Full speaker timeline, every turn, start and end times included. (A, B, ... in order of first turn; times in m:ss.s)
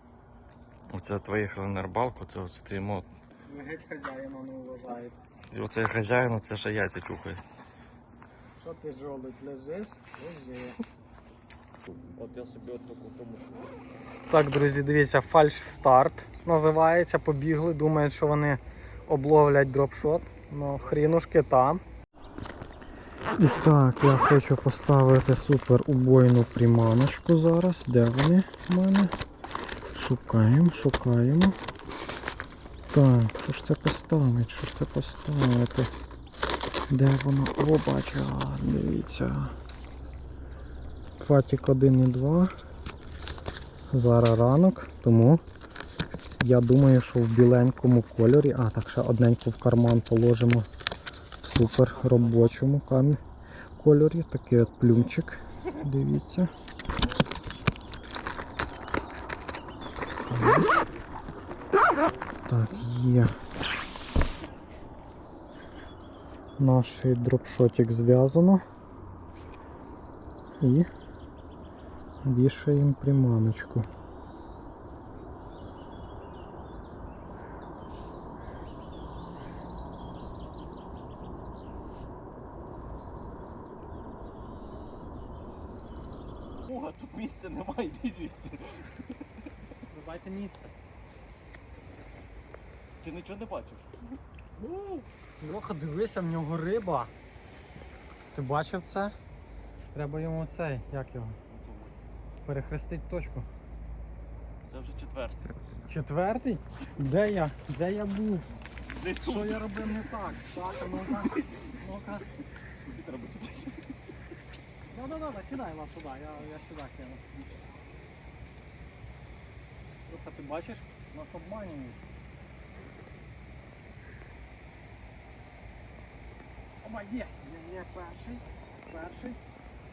0:00.9-0:03.1 A
0:03.5-0:05.2 B
0:05.5-0:07.4 A
0:08.6-0:10.8 B
0:11.9-0:13.6 A
0:14.3-0:21.8 B
0:23.4-0:29.1 B
0:29.9-0:31.6 B
0:32.9-0:35.9 B
0:36.9-0:39.5 B
0:41.2-0:42.5 B
0:43.9-0:45.4 B
0:46.4-0:50.7 B
0:51.4-0:53.2 B
0:53.8-0:56.5 B
1:00.3-1:00.7 B
1:02.5-1:03.4 B
1:06.6-1:08.6 B
1:10.6-1:10.9 B
1:12.2-1:13.9 B
1:26.6-1:29.1 A
1:29.9-1:30.7 B
1:33.0-1:34.0 A
1:34.6-1:37.1 B
1:38.3-1:39.2 B
1:39.9-1:41.4 B
1:41.5-1:42.0 A
1:42.5-1:43.5 B
1:44.6-1:45.9 A
1:45.9-1:48.5 B
1:48.9-1:49.9 A
1:49.2-1:52.3 B
1:51.0-1:51.5 A
1:52.8-1:53.9 A
1:54.9-1:57.2 B
2:00.1-2:02.0 B
2:06.7-2:09.4 B